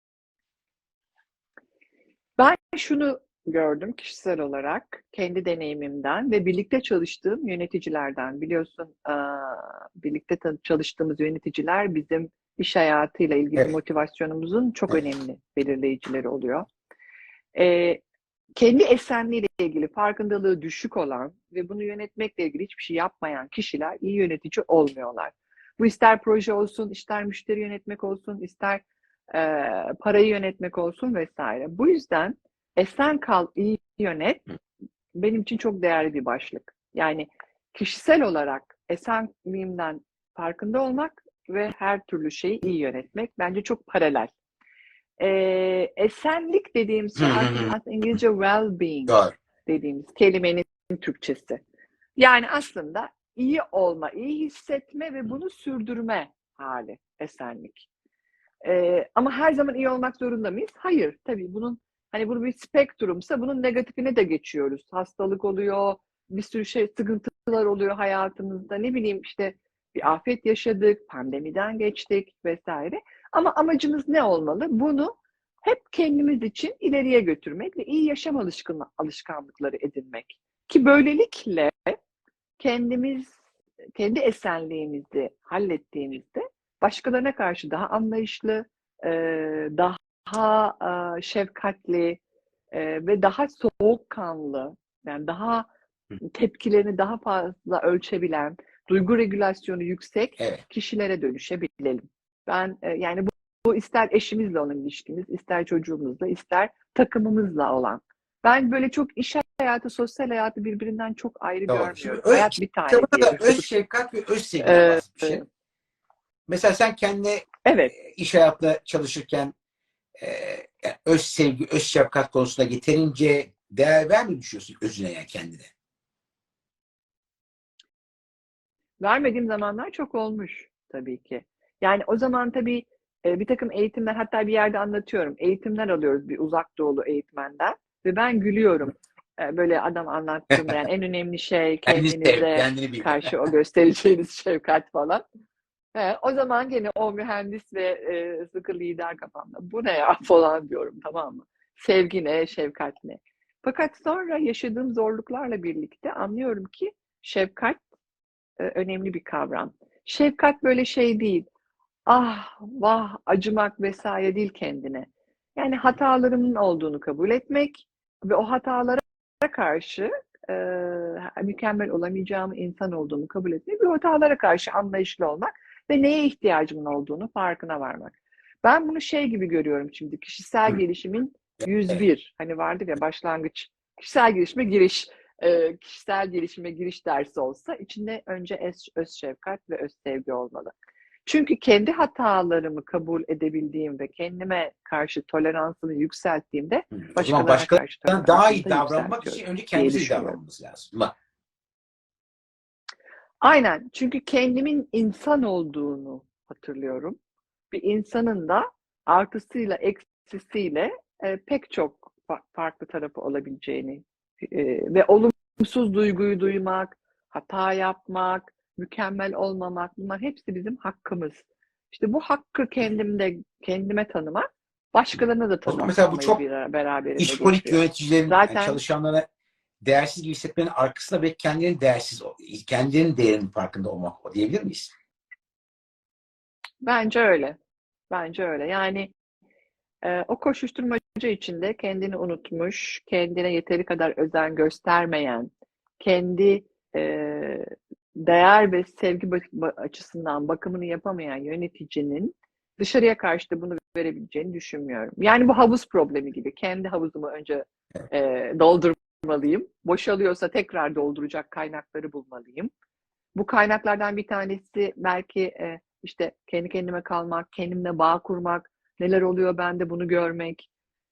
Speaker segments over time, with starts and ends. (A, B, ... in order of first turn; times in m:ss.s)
0:02.4-0:16.7 A
0:17.5-0:18.0 A
0:18.6-0:34.4 A
0:35.1-0:44.3 A
0:45.2-0:51.6 A
0:47.2-0:47.7 B
0:49.1-0:49.3 B
0:52.2-0:57.9 A
0:58.6-1:22.0 A
1:22.6-1:23.4 A
1:24.0-1:32.2 A
1:32.7-1:35.7 A
1:36.2-1:53.7 A
1:51.7-1:55.4 B
1:54.6-1:55.4 A
1:56.5-1:59.5 B
1:57.6-1:57.9 A
2:00.2-2:05.7 B
2:09.0-2:25.2 A
2:21.9-2:23.3 B
2:25.9-2:37.8 A
2:38.6-2:41.5 A
2:42.1-3:10.7 A
3:11.2-3:20.4 A
3:17.0-3:21.1 B
3:23.4-3:27.2 A
3:27.7-3:48.8 A
3:45.7-3:46.4 B
3:47.2-3:49.3 B
3:49.8-3:54.9 B
3:56.8-3:57.6 A
3:58.1-3:59.1 A
4:00.0-4:22.7 A
4:23.3-4:30.7 A